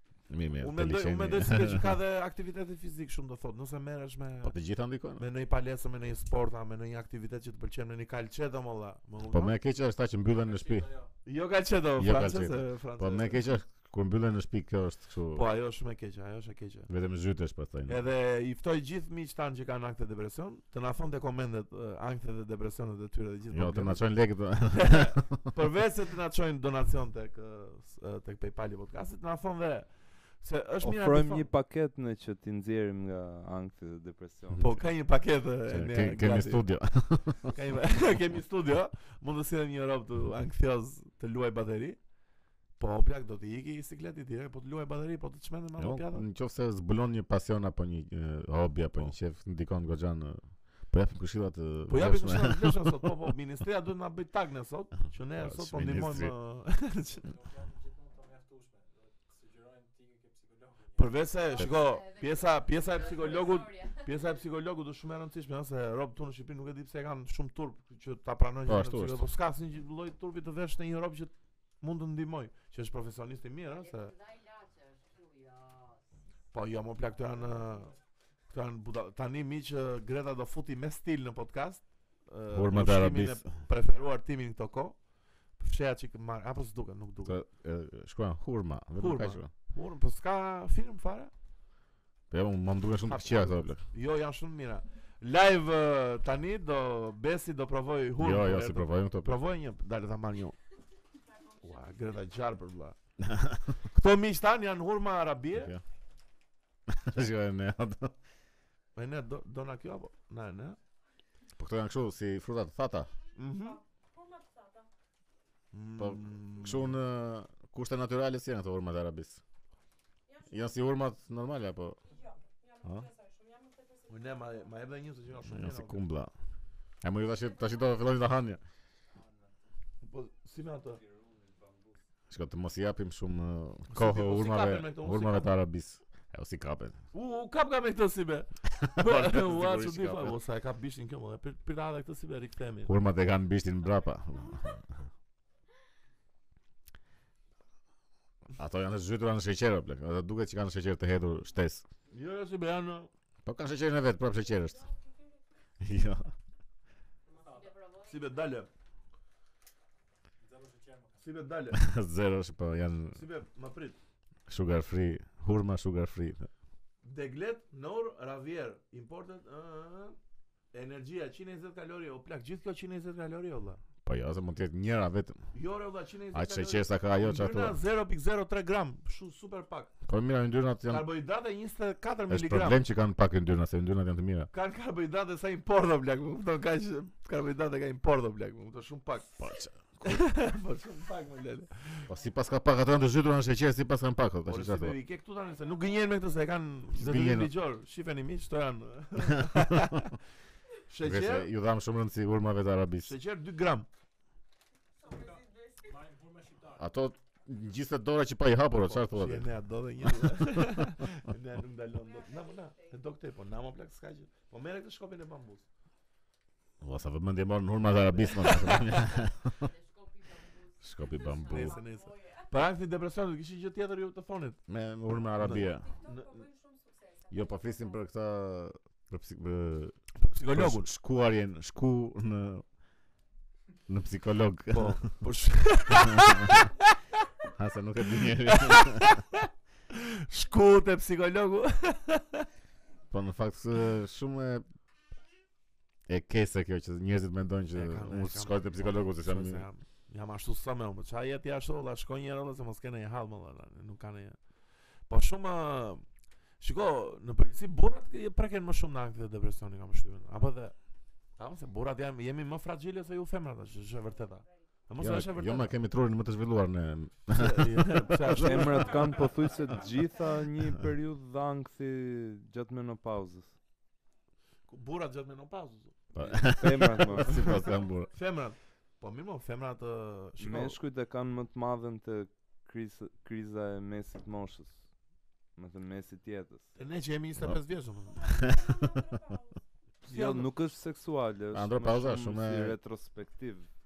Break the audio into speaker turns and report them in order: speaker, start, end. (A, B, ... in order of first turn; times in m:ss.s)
0:00.3-0:01.9 A
0:00.6-0:04.5 B
0:04.4-0:05.2 A
0:05.2-0:09.5 B
0:09.3-0:10.9 A
0:10.4-0:11.1 C
0:11.2-0:13.4 B
0:12.0-0:15.4 A
0:15.3-0:16.9 B
0:16.9-0:18.0 A
0:17.9-0:24.1 B
0:23.5-0:25.4 A
0:24.7-0:31.5 B
0:30.8-0:34.7 D
0:34.6-0:36.6 B
0:35.7-0:37.6 A
0:37.5-0:42.0 B
0:42.8-0:46.2 B
0:45.8-0:53.0 A
0:51.9-0:57.2 B
0:55.4-0:56.3 A
0:57.0-1:01.3 C
1:01.0-1:14.1 B
1:01.4-1:04.4 E
1:08.6-1:09.2 A
1:13.6-1:16.6 E
1:16.5-1:17.9 B
1:17.3-1:17.9 C
1:18.5-1:25.0 B
1:22.5-1:23.5 A
1:25.6-1:27.4 B
1:27.2-1:29.5 A
1:29.0-1:31.3 B
1:32.3-1:33.8 A
1:33.0-1:40.6 B
1:38.2-1:39.4 A
1:41.2-1:42.4 F
1:41.6-1:43.0 B
1:43.2-1:43.7 A
1:43.9-1:45.7 B
1:45.5-1:45.8 A
1:46.9-1:48.1 A
1:49.0-1:50.8 B
1:51.6-1:53.1 A
1:53.3-1:53.8 B
1:53.5-1:54.9 F
1:55.7-1:57.0 B
1:56.0-1:59.4 A
2:00.2-2:01.0 F
2:00.5-2:02.0 A
2:02.0-2:05.0 F
2:04.1-2:06.1 B
2:05.5-2:06.3 A
2:07.0-2:08.6 A
2:07.2-2:07.9 F
2:09.1-2:09.5 C
2:10.0-2:11.0 B
2:11.0-2:12.0 D
2:12.3-2:17.0 A
2:13.9-2:15.5 B
2:17.1-2:22.9 B
2:18.7-2:20.4 A
2:22.8-2:24.8 A
2:28.6-2:31.8 A
2:32.1-2:33.1 B
2:33.4-2:34.8 A
2:34.3-2:35.4 F
2:35.8-2:36.3 A
2:37.2-2:38.6 E
2:37.4-2:37.8 C
2:38.0-2:38.7 B
2:40.4-2:41.2 C
2:41.2-2:41.8 B
2:41.7-2:43.2 A
2:43.1-2:44.0 B
2:44.5-2:46.5 A
2:47.0-2:50.2 B
2:50.7-2:53.8 B
2:54.0-2:55.4 A
2:55.5-2:59.9 B
2:56.3-2:57.8 A
3:00.0-3:01.1 A
3:00.9-3:02.8 B
3:02.3-3:04.5 A
3:04.5-3:09.4 B
3:09.4-3:10.2 A
3:10.0-3:12.1 B
3:12.1-3:15.0 A
3:14.5-3:20.1 B
3:15.4-3:16.4 F
3:16.9-3:17.5 A
3:19.4-3:20.0 A
3:20.9-3:21.5 B
3:21.0-3:23.1 A
3:23.0-3:23.9 B
3:25.0-3:25.8 F
3:25.0-3:27.1 C
3:26.8-3:29.5 A
3:28.8-3:35.6 B
3:30.0-3:30.8 A
3:32.0-3:33.0 F
3:32.2-3:32.5 E
3:36.8-3:39.6 A
3:38.2-3:38.8 B
3:38.4-3:41.8 E
3:40.8-3:41.8 A
3:41.1-3:42.7 F
3:41.5-3:44.6 B
3:44.7-3:45.9 A
3:45.4-3:46.4 B
3:45.4-3:48.1 F
3:47.3-3:50.0 A
3:50.1-3:50.9 B
3:50.5-3:52.6 A
3:53.9-3:55.1 A
3:54.7-3:56.9 B
3:56.1-3:56.6 A
3:57.6-3:59.2 A
3:58.4-4:02.4 B
4:03.1-4:04.6 A
4:06.1-4:09.7 A
4:07.7-4:14.4 B
4:15.1-4:16.0 B
4:16.6-4:20.8 B
4:21.4-4:25.7 B
4:24.0-4:24.6 F
4:25.0-4:28.6 A
4:27.3-4:29.3 B
4:28.4-4:33.5 D
4:29.0-4:29.9 C
4:29.7-4:30.2 F
4:34.7-4:36.0 B
4:36.1-4:38.1 A
4:36.2-4:37.6 D
4:37.4-4:38.2 F
4:38.1-4:40.8 B
4:40.4-4:44.9 D
4:45.5-4:46.7 D
4:46.8-4:48.2 B
4:48.0-4:49.6 F
4:48.3-4:49.0 A
4:50.0-4:50.5 B
4:50.0-4:53.7 D
4:51.5-4:52.8 A